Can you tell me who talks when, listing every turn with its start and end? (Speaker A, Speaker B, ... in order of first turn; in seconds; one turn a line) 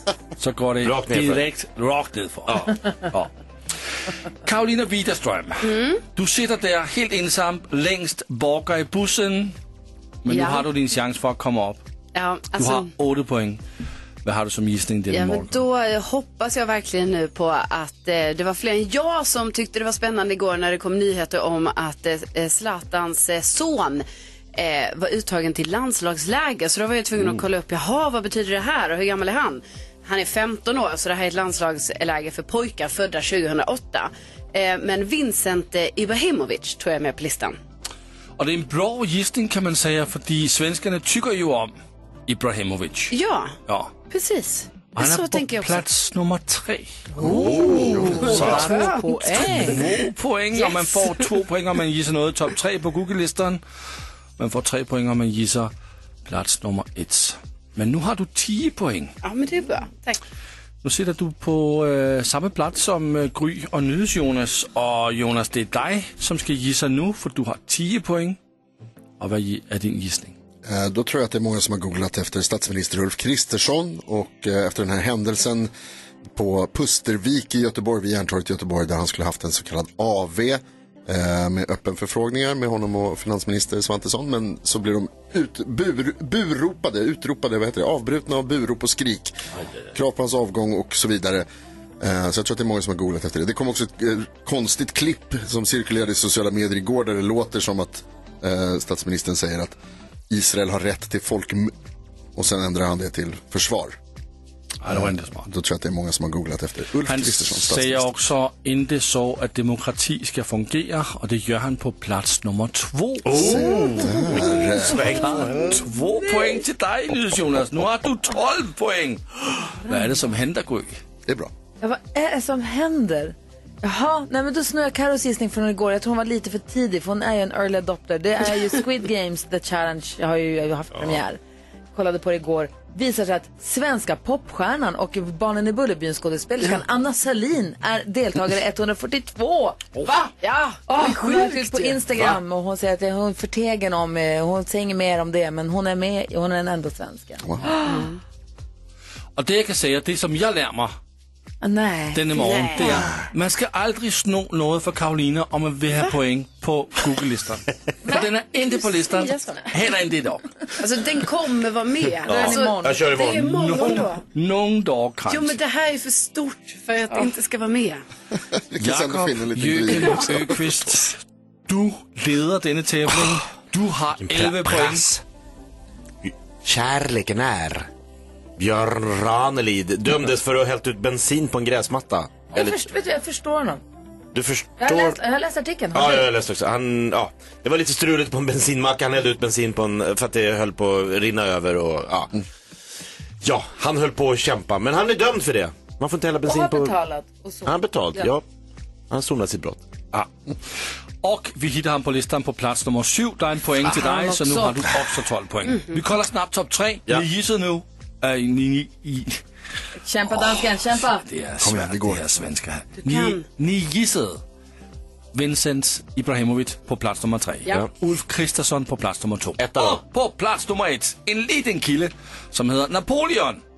Speaker A: 0.4-3.3
Speaker B: 0.8-1.4
Speaker B: 2.5-2.8
Speaker A: 4.4-9.6
Speaker C: 5.6-6.0
Speaker A: 10.2-11.8
Speaker C: 10.3-10.7
Speaker C: 12.1-12.9
Speaker A: 12.5-13.6
Speaker A: 14.2-15.6
Speaker C: 15.1-37.6
Speaker A: 38.4-41.7
Speaker A: 42.3-43.1
Speaker C: 43.1-43.5
Speaker A: 43.7-43.9
Speaker C: 44.1-45.8
Speaker A: 45.0-47.0
Speaker D: 47.2-49.8
Speaker B: 47.2-47.8
Speaker C: 47.2-49.8
Speaker E: 47.3-48.3
Speaker A: 48.1-53.6
Speaker C: 50.5-51.2
Speaker A: 54.4-55.7
Speaker A: 56.3-59.1
Speaker C: 59.2-60.2
Speaker A: 60.8-68.4
Speaker A: 69.2-70.3
Speaker E: 70.6-75.7
Speaker E: 76.3-89.4
Speaker E: 89.9-91.5
Speaker E: 92.0-99.8
Speaker E: 100.3-101.7
Speaker E: 102.3-104.0
Speaker A: 104.8-105.5
Speaker E: 104.9-108.1
Speaker A: 107.0-113.6
Speaker B: 113.2-115.8
Speaker E: 113.3-115.5
Speaker A: 115.2-121.0
Speaker D: 119.8-120.2
Speaker E: 121.2-121.5
Speaker D: 121.8-131.4
Speaker D: 131.9-140.0
Speaker C: 140.1-142.1
Speaker D: 140.9-148.1
Speaker E: 147.4-147.7
Speaker C: 147.8-148.2
Speaker A: 149.4-150.9
Speaker D: 151.6-153.0
Speaker A: 152.1-160.7
Speaker C: 152.4-153.0
Speaker D: 158.8-159.6
Speaker C: 160.8-164.2
Speaker D: 162.2-163.0
Speaker B: 162.2-163.8
Speaker A: 163.4-165.6
Speaker C: 165.3-168.0
Speaker E: 168.5-170.7
Speaker A: 168.8-175.1
Speaker B: 174.2-175.2
Speaker B: 176.2-177.9
Speaker B: 178.6-182.8
Speaker D: 182.5-183.8
Speaker B: 184.3-185.2
Speaker D: 184.8-186.3
Speaker B: 185.9-192.3
Speaker B: 193.4-196.9
Speaker D: 196.4-198.3
Speaker B: 197.6-198.4
Speaker B: 199.1-199.8
Speaker A: 201.2-209.4
Speaker D: 203.9-204.9
Speaker C: 205.7-206.0
Speaker D: 209.9-211.2
Speaker A: 211.2-214.4
Speaker E: 211.6-212.4
Speaker C: 213.1-213.4
Speaker A: 215.3-223.6
Speaker B: 219.6-220.0